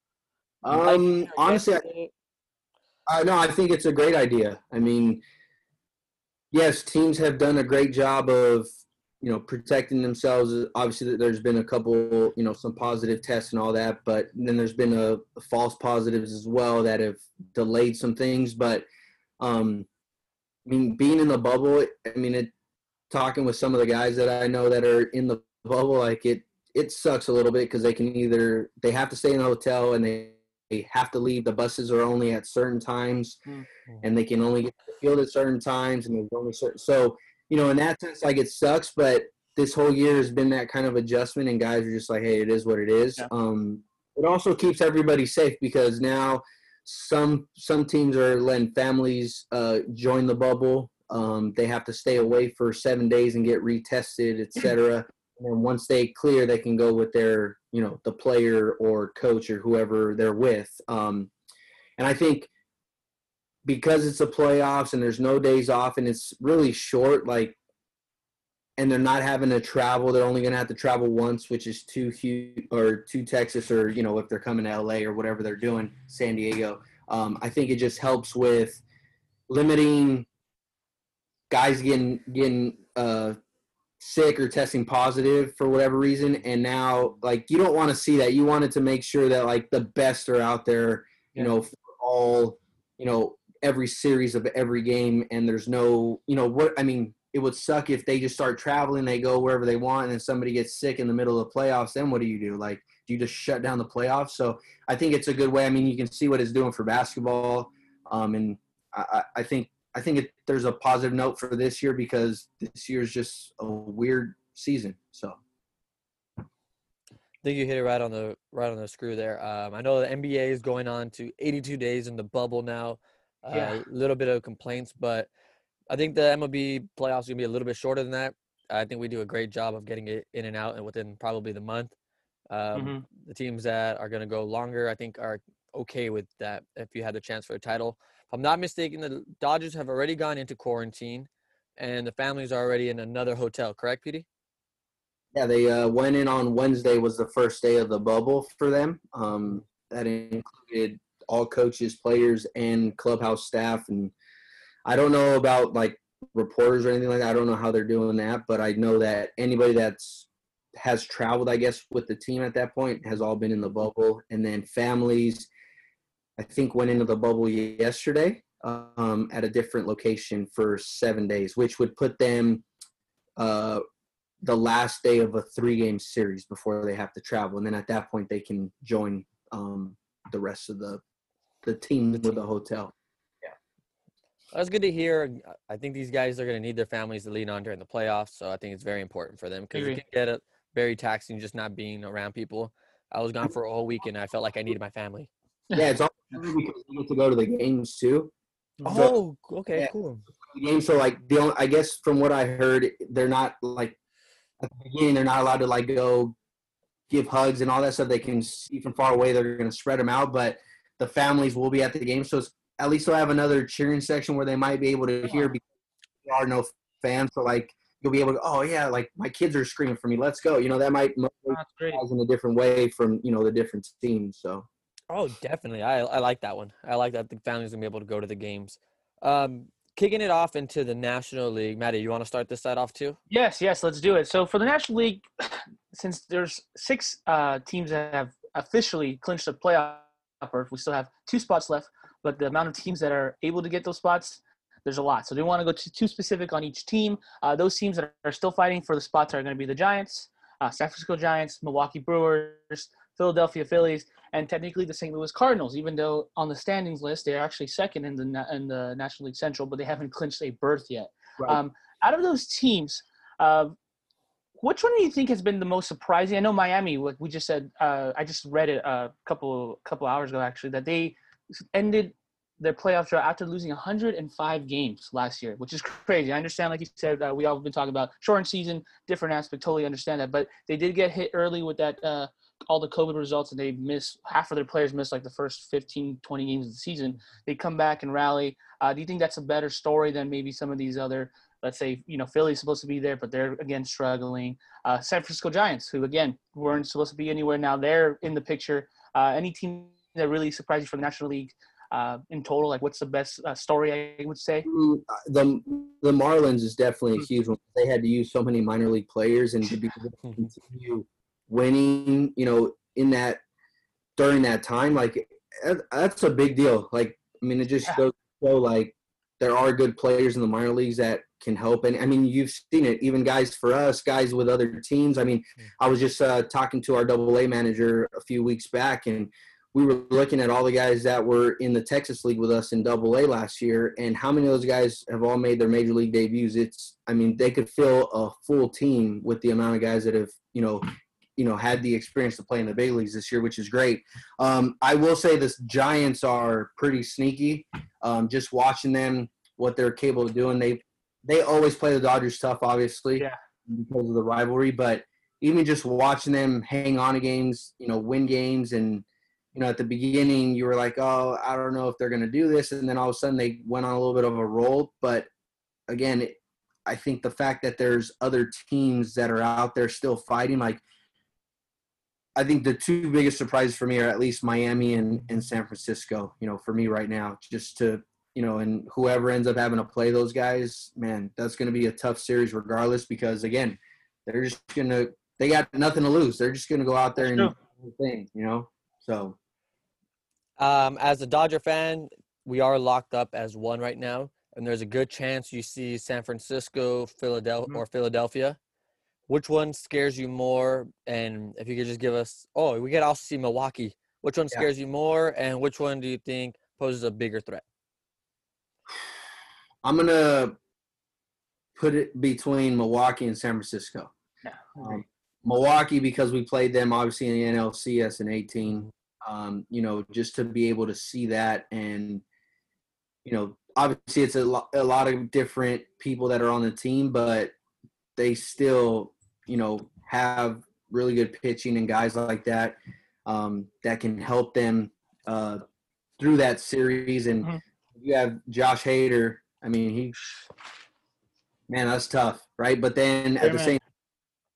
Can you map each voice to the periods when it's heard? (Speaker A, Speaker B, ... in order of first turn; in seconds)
Speaker A: 0.6-1.9, 3.1-5.2, 6.5-8.7, 9.2-18.9, 19.4-19.9, 20.7-22.5, 23.1-33.4, 34.0-61.3, 62.0-62.5, 63.6-67.6, 68.8-78.8, 79.5-80.3, 81.5-83.4, 84.0-115.4, 145.3-154.1, 154.9-165.5, 166.4-172.6, 173.4-173.8, 174.4-181.0, 181.6-182.9, 195.8-198.3, 198.9-199.1, 200.5-204.0, 204.6-206.3, 207.1-215.6, 216.2-224.7, 304.6-313.4, 314.2-340.9, 341.4-365.3, 365.9-370.8, 372.4-389.4, 409.8-410.5, 411.8-414.1, 414.8-422.2, 423.2-427.5, 428.2-435.6, 436.2-440.4, 441.7-443.8
Speaker B: 0.7-2.1, 117.4-125.3, 125.9-131.9, 132.5-144.2, 184.5-195.3, 198.9-200.2, 225.1-233.2, 390.6-398.6, 399.3-407.6
Speaker C: 123.5-123.8, 132.7-133.1, 189.7-190.0, 198.8-199.1, 215.2-215.5, 221.5-222.0, 233.3-263.8, 264.6-271.1, 271.7-304.7, 387.2-387.5, 414.4-414.9, 443.4-443.8